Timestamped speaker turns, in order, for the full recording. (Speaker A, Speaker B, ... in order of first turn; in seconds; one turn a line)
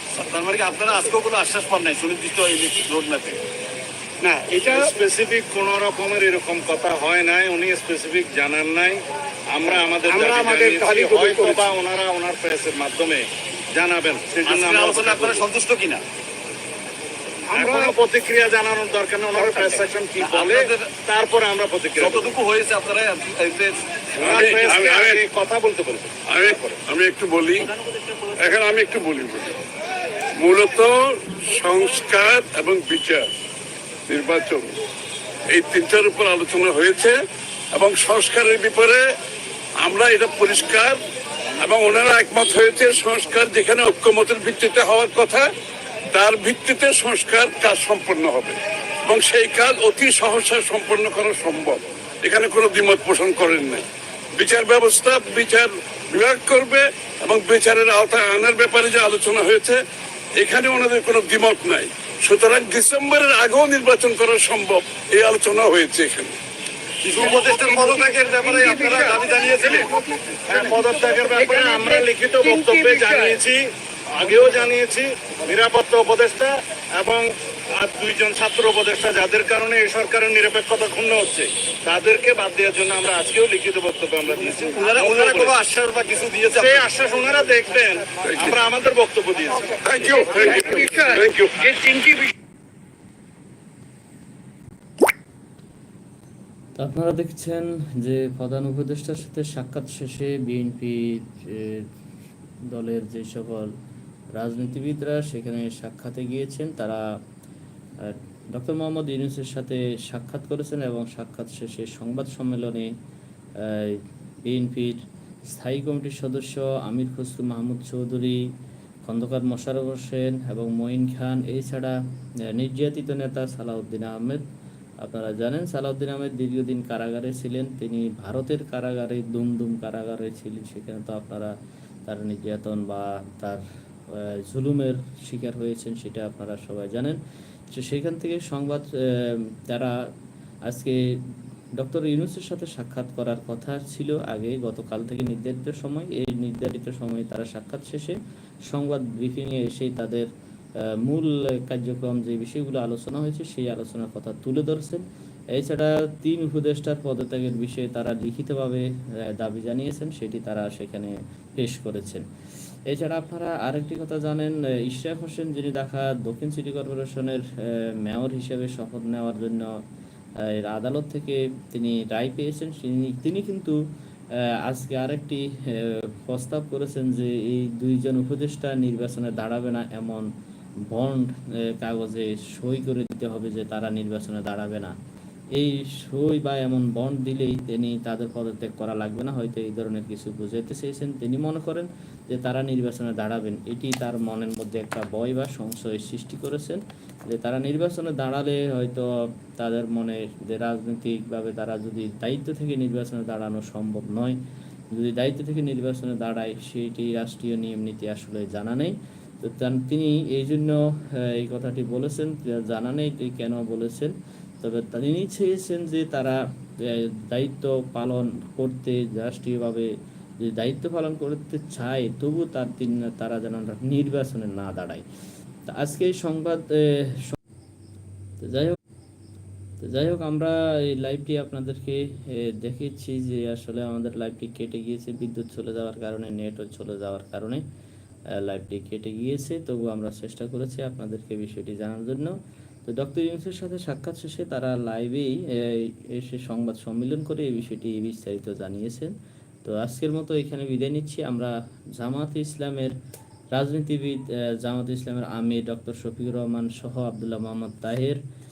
Speaker A: 0.1-3.4
Speaker B: 4.2-4.9
Speaker C: 4.7-15.5
Speaker B: 10.0-11.7
Speaker A: 14.4-16.0
Speaker B: 17.5-18.0
Speaker C: 17.5-22.3
Speaker B: 19.4-19.8
Speaker A: 20.2-20.9
Speaker A: 21.9-23.8
Speaker D: 24.2-25.2
Speaker C: 24.2-26.8
Speaker D: 26.3-27.7
Speaker D: 28.4-29.6
Speaker D: 30.4-33.3
Speaker D: 34.1-34.8
Speaker D: 35.5-37.2
Speaker D: 37.7-39.0
Speaker D: 39.8-41.0
Speaker D: 41.6-45.5
Speaker D: 46.1-48.6
Speaker D: 49.1-53.9
Speaker D: 54.4-59.8
Speaker D: 60.4-66.4
Speaker A: 67.0-69.9
Speaker B: 67.2-73.4
Speaker C: 70.5-77.3
Speaker C: 77.8-85.6
Speaker A: 84.7-86.9
Speaker C: 86.5-90.3
Speaker D: 88.2-88.6
Speaker B: 89.8-92.3
Speaker D: 89.8-91.6
Speaker E: 96.8-101.9
Speaker E: 102.7-103.7
Speaker E: 104.3-107.0
Speaker E: 108.0-112.9
Speaker E: 113.6-118.4
Speaker E: 119.1-122.0
Speaker E: 122.5-124.4
Speaker E: 125.0-131.5
Speaker E: 132.1-133.6
Speaker E: 134.2-137.2
Speaker E: 137.7-139.9
Speaker E: 140.7-141.0
Speaker E: 141.8-148.2
Speaker E: 148.7-150.3
Speaker E: 151.0-155.0
Speaker E: 155.6-158.9
Speaker E: 159.4-162.2
Speaker E: 162.9-169.7
Speaker E: 170.6-173.8
Speaker E: 174.7-180.3
Speaker E: 180.9-184.9
Speaker E: 185.6-199.1
Speaker E: 199.6-204.4
Speaker E: 204.9-219.9
Speaker E: 220.5-225.0
Speaker E: 225.7-227.3
Speaker E: 228.4-228.8
Speaker E: 229.8-237.6
Speaker E: 238.4-249.1
Speaker E: 249.7-252.9
Speaker E: 253.6-258.2